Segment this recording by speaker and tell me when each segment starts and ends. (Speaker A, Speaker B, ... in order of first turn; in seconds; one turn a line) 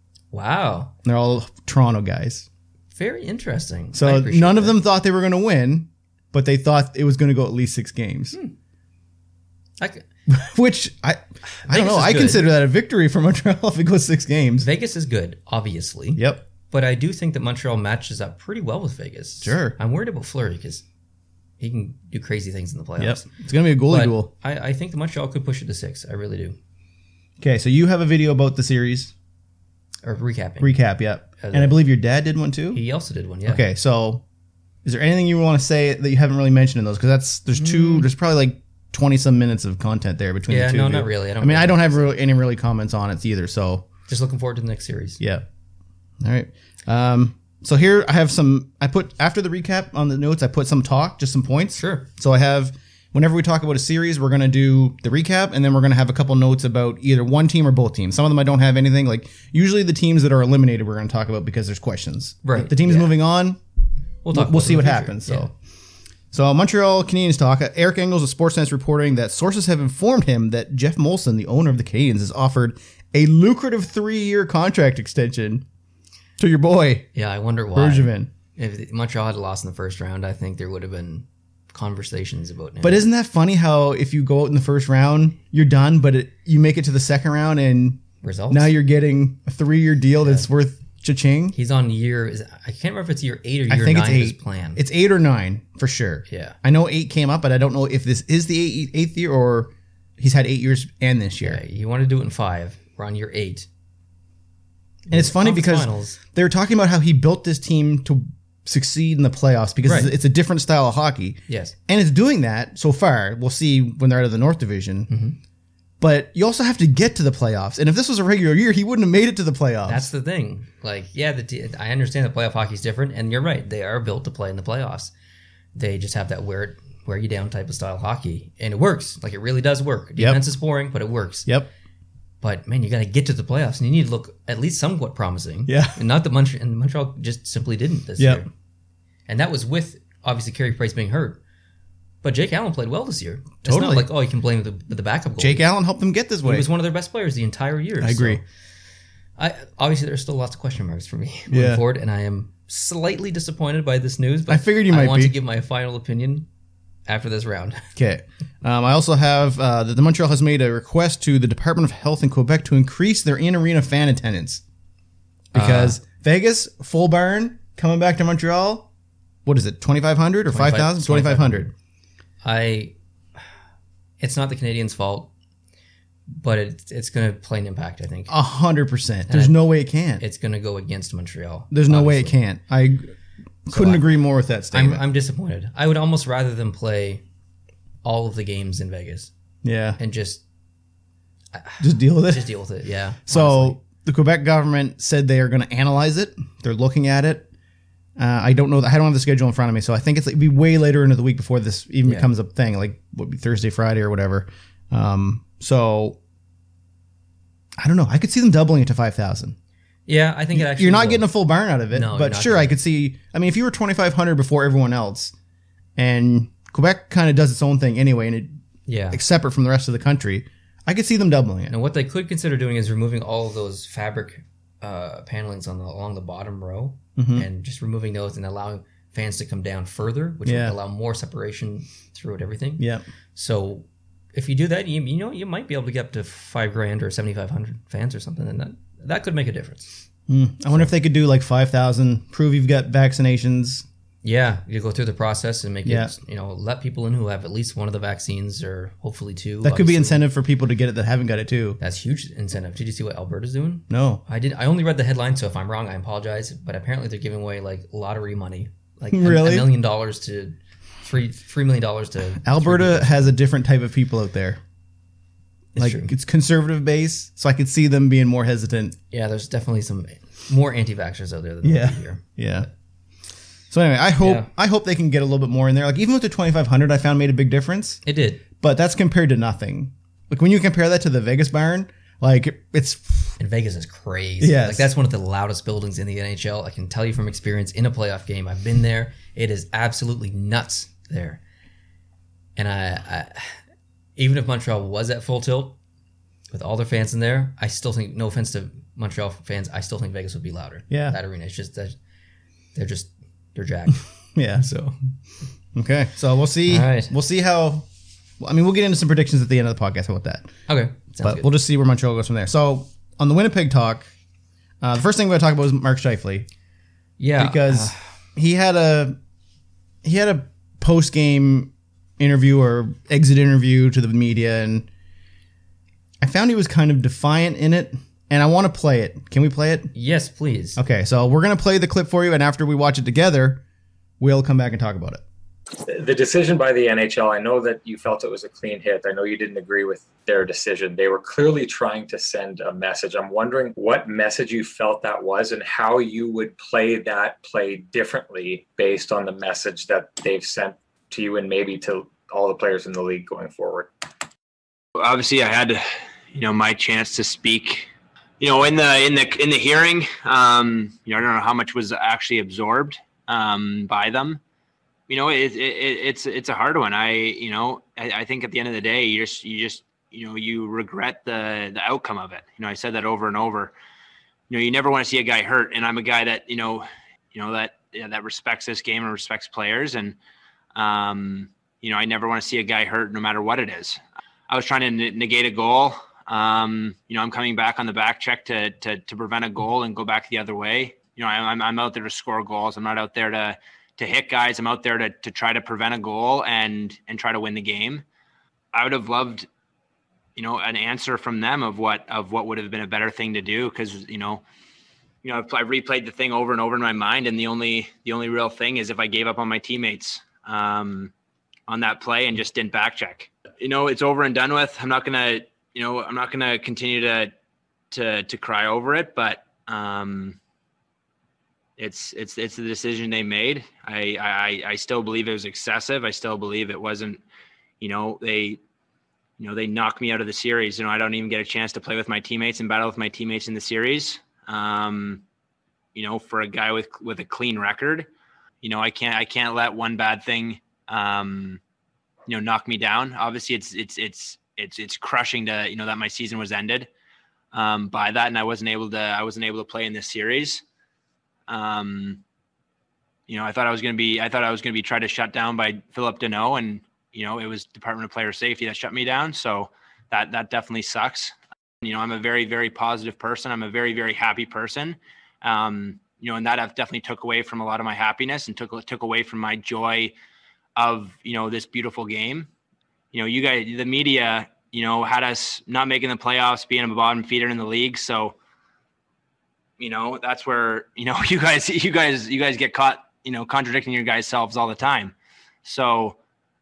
Speaker A: 0.3-0.9
Speaker B: 1.0-2.5
Speaker A: 3.0-4.8
Speaker B: 3.9-8.4
Speaker A: 9.8-10.1
Speaker B: 10.3-14.7
Speaker A: 11.7-12.5
Speaker A: 14.6-20.8
Speaker B: 16.2-16.4
Speaker B: 19.4-19.8
Speaker A: 21.6-23.3
Speaker B: 23.0-24.3
Speaker A: 23.9-26.6
Speaker B: 27.4-29.1
Speaker A: 30.0-30.8
Speaker B: 30.6-32.8
Speaker A: 31.4-31.8
Speaker A: 32.7-33.6
Speaker B: 33.5-34.2
Speaker B: 34.9-43.9
Speaker A: 37.5-38.1
Speaker A: 40.5-42.1
Speaker A: 44.1-45.2
Speaker B: 46.2-63.6
Speaker A: 51.8-52.1
Speaker A: 62.4-63.2
Speaker A: 64.2-65.5
Speaker B: 64.3-65.5
Speaker B: 66.3-75.7
Speaker B: 76.4-77.1
Speaker A: 77.1-83.0
Speaker B: 77.8-78.3
Speaker B: 82.8-91.6
Speaker A: 88.2-88.7
Speaker A: 90.2-90.5
Speaker A: 91.5-94.8
Speaker B: 93.7-101.6
Speaker A: 96.3-96.6
Speaker A: 101.4-103.7
Speaker A: 105.1-106.2
Speaker B: 105.1-115.1
Speaker A: 109.8-110.2
Speaker A: 111.5-111.8
Speaker A: 115.1-115.4
Speaker B: 116.0-120.1
Speaker A: 119.9-125.1
Speaker A: 125.8-131.5
Speaker B: 130.2-130.4
Speaker A: 132.4-138.5
Speaker B: 135.7-136.0
Speaker B: 138.2-138.4
Speaker A: 139.3-141.4
Speaker A: 142.2-145.6
Speaker B: 143.6-144.1
Speaker B: 145.4-146.7
Speaker A: 146.4-148.4
Speaker B: 148.0-148.4
Speaker A: 149.4-156.5
Speaker B: 151.5-151.8
Speaker B: 154.5-155.3
Speaker A: 157.1-157.9
Speaker B: 158.0-164.6
Speaker B: 165.5-168.9
Speaker A: 165.5-166.0
Speaker B: 169.4-171.7
Speaker A: 170.5-171.7
Speaker A: 172.4-172.9
Speaker A: 174.2-175.3
Speaker A: 176.3-178.3
Speaker B: 178.3-180.2
Speaker A: 179.3-179.6
Speaker A: 180.2-182.4
Speaker B: 181.7-183.1
Speaker B: 183.7-185.0
Speaker A: 183.7-184.1
Speaker A: 184.7-187.2
Speaker A: 188.0-189.3
Speaker B: 189.6-190.0
Speaker A: 190.0-190.4
Speaker A: 191.5-193.8
Speaker B: 191.8-192.5
Speaker B: 193.3-197.5
Speaker B: 198.2-206.2
Speaker A: 202.0-202.3
Speaker B: 207.8-209.6
Speaker A: 210.1-211.3
Speaker B: 210.5-215.3
Speaker A: 211.9-212.8
Speaker B: 216.0-218.6
Speaker A: 218.9-219.2
Speaker B: 219.1-221.7
Speaker A: 221.7-240.0
Speaker B: 227.2-227.5
Speaker B: 230.4-230.8
Speaker B: 232.8-233.0
Speaker B: 240.3-243.8
Speaker A: 244.2-250.2
Speaker B: 245.9-246.1
Speaker B: 249.6-251.8
Speaker A: 251.8-263.4
Speaker B: 253.9-254.2
Speaker B: 259.1-259.7
Speaker B: 262.4-264.6
Speaker A: 265.8-266.1
Speaker B: 265.8-269.0
Speaker A: 269.1-272.2
Speaker B: 271.6-272.7
Speaker B: 273.7-278.0
Speaker A: 274.2-274.5
Speaker A: 278.1-278.4
Speaker B: 278.6-283.4
Speaker A: 283.4-291.4
Speaker B: 284.4-284.9
Speaker A: 292.6-293.6
Speaker A: 294.2-295.8
Speaker A: 296.5-302.0
Speaker B: 300.9-301.2
Speaker A: 302.8-304.0
Speaker B: 304.4-304.6
Speaker A: 304.6-304.9
Speaker B: 305.8-307.9
Speaker A: 306.7-307.1
Speaker B: 308.4-310.5
Speaker A: 310.7-311.5
Speaker B: 311.2-314.1
Speaker B: 314.8-316.5
Speaker A: 317.2-318.0
Speaker B: 317.4-319.2
Speaker B: 320.0-324.9
Speaker B: 326.2-329.9
Speaker A: 329.9-330.8
Speaker B: 330.8-333.6
Speaker B: 334.2-335.2
Speaker C: 335.9-353.9
Speaker D: 355.0-357.9
Speaker D: 358.4-364.4
Speaker D: 365.1-373.7
Speaker D: 374.5-380.2
Speaker D: 380.8-398.0
Speaker D: 398.7-399.5
Speaker D: 400.4-404.4
Speaker D: 405.2-411.1
Speaker D: 411.7-417.3
Speaker D: 417.9-420.4
Speaker D: 421.8-427.2
Speaker D: 427.8-428.6
Speaker D: 429.4-435.2
Speaker D: 435.9-438.1
Speaker D: 438.6-441.6
Speaker D: 442.3-446.9
Speaker D: 447.5-450.6
Speaker D: 451.5-452.2
Speaker D: 453.3-470.1
Speaker D: 470.8-472.5
Speaker D: 473.1-478.4
Speaker D: 479.8-485.1
Speaker D: 485.6-486.2